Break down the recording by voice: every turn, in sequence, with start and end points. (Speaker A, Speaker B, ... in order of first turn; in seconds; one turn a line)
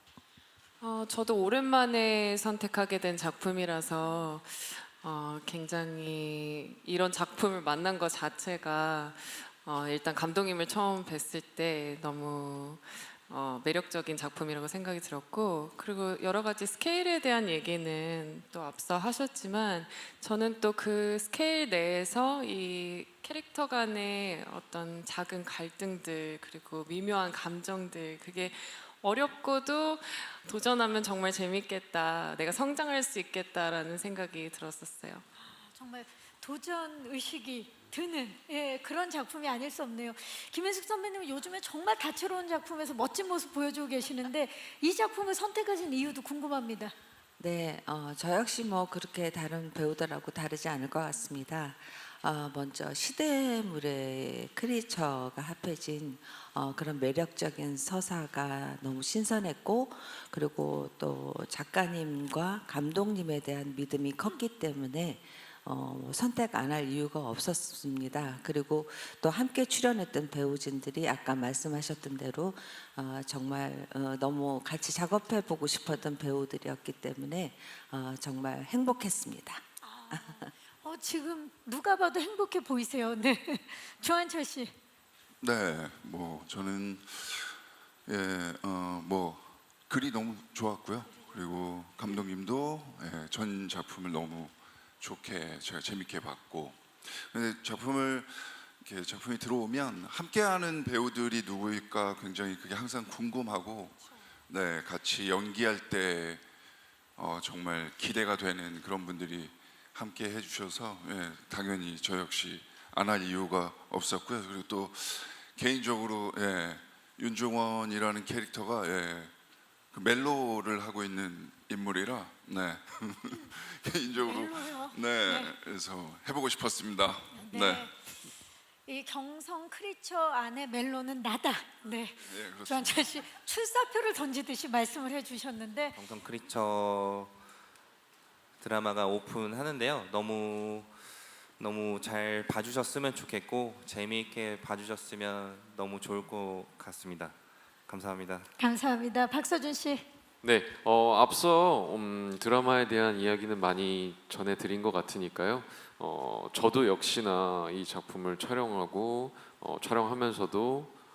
Speaker A: 0.8-35.2
Speaker B: 35.4-46.9
Speaker C: 47.4-80.5
Speaker B: 79.8-84.8
Speaker D: 85.4-87.5
Speaker D: 88.1-103.9
Speaker D: 104.5-106.4
Speaker D: 107.2-119.3
Speaker D: 119.9-127.9
Speaker B: 124.2-125.5
Speaker B: 127.3-128.0
Speaker B: 128.9-136.0
Speaker D: 132.2-133.3
Speaker E: 135.9-137.4
Speaker E: 138.6-140.9
Speaker E: 141.6-148.5
Speaker B: 148.6-150.1
Speaker F: 150.4-160.9